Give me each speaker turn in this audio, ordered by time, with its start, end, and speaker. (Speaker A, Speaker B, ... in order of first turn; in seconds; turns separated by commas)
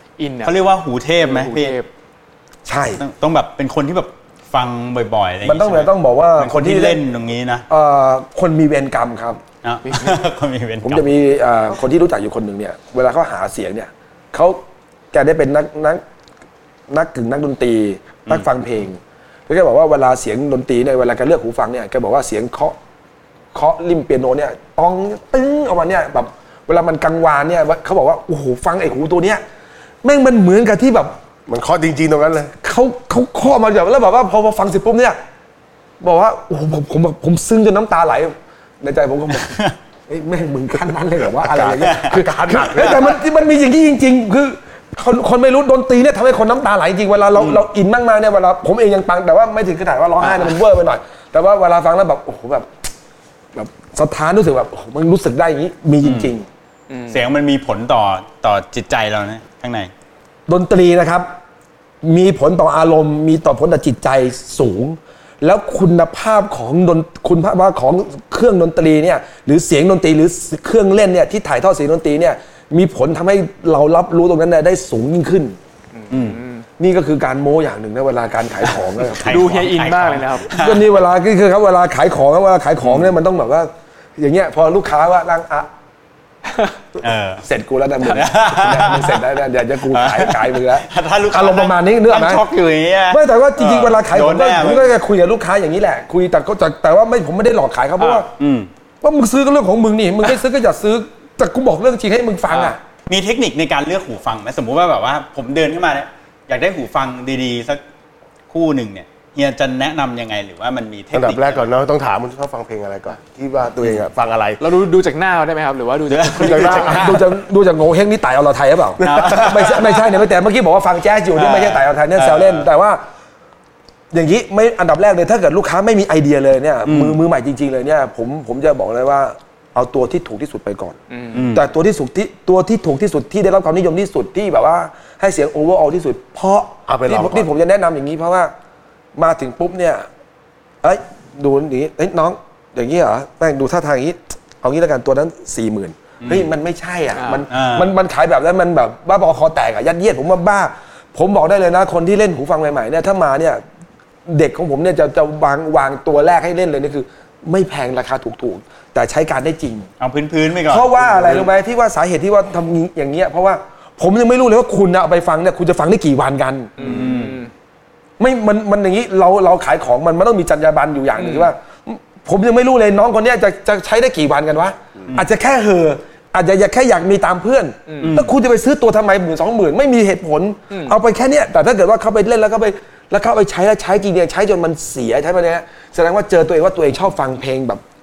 Speaker A: 0.2-1.9, Speaker B: 0.4-1.8, Speaker C: 2.7-3.0, Speaker B: 2.9-7.7, Speaker C: 5.4-7.0, Speaker C: 7.7-9.4, Speaker B: 9.6-11.1, Speaker A: 9.8-10.2, Speaker C: 10.8-14.6, Speaker C: 15.1-16.0, Speaker C: 16.9-22.8, Speaker C: 23.5-29.4, Speaker C: 30.0-31.2, Speaker D: 31.5-32.5, Speaker C: 32.6-35.2, Speaker C: 36.0-39.6, Speaker B: 39.3-39.7, Speaker C: 40.1-52.7, Speaker D: 41.4-43.2, Speaker B: 41.8-42.2, Speaker B: 47.4-47.6, Speaker A: 50.2-50.6, Speaker C: 53.5-56.5, Speaker B: 56.0-56.3, Speaker A: 56.9-57.2, Speaker B: 57.1-59.9, Speaker C: 60.5-61.3, Speaker C: 62.0-75.6, Speaker A: 76.0-76.7, Speaker B: 76.1-76.4, Speaker C: 76.8-79.2, Speaker B: 79.0-80.9, Speaker A: 79.2-80.5, Speaker C: 80.5-85.7, Speaker B: 82.8-83.1, Speaker B: 87.0-87.5, Speaker C: 87.5-92.5, Speaker B: 88.0-89.2, Speaker B: 89.9-94.9, Speaker C: 93.1-98.3, Speaker A: 98.0-98.3, Speaker B: 98.4-98.7, Speaker C: 99.0-102.8, Speaker B: 103.1-107.8, Speaker B: 108.5-111.7, Speaker D: 111.1-114.7, Speaker A: 114.6-117.2, Speaker B: 116.1-117.2, Speaker D: 116.4-117.2, Speaker C: 116.6-123.0, Speaker B: 119.0-120.0, Speaker D: 119.0-119.7, Speaker B: 121.3-122.7, Speaker C: 124.1-131.0, Speaker B: 126.8-127.2, Speaker A: 131.1-131.5, Speaker B: 131.3-131.6, Speaker C: 131.5-138.5, Speaker D: 136.9-137.5, Speaker C: 139.2-140.1, Speaker C: 140.8-153.6, Speaker B: 146.2-146.5, Speaker A: 147.1-147.4, Speaker B: 147.5-147.9, Speaker C: 154.3-159.9, Speaker B: 160.0-161.5, Speaker C: 160.7-167.1, Speaker A: 166.8-167.5, Speaker B: 166.8-167.4, Speaker C: 168.2-187.8, Speaker A: 171.2-171.5, Speaker A: 177.9-178.2, Speaker B: 178.0-178.3, Speaker A: 180.7-181.0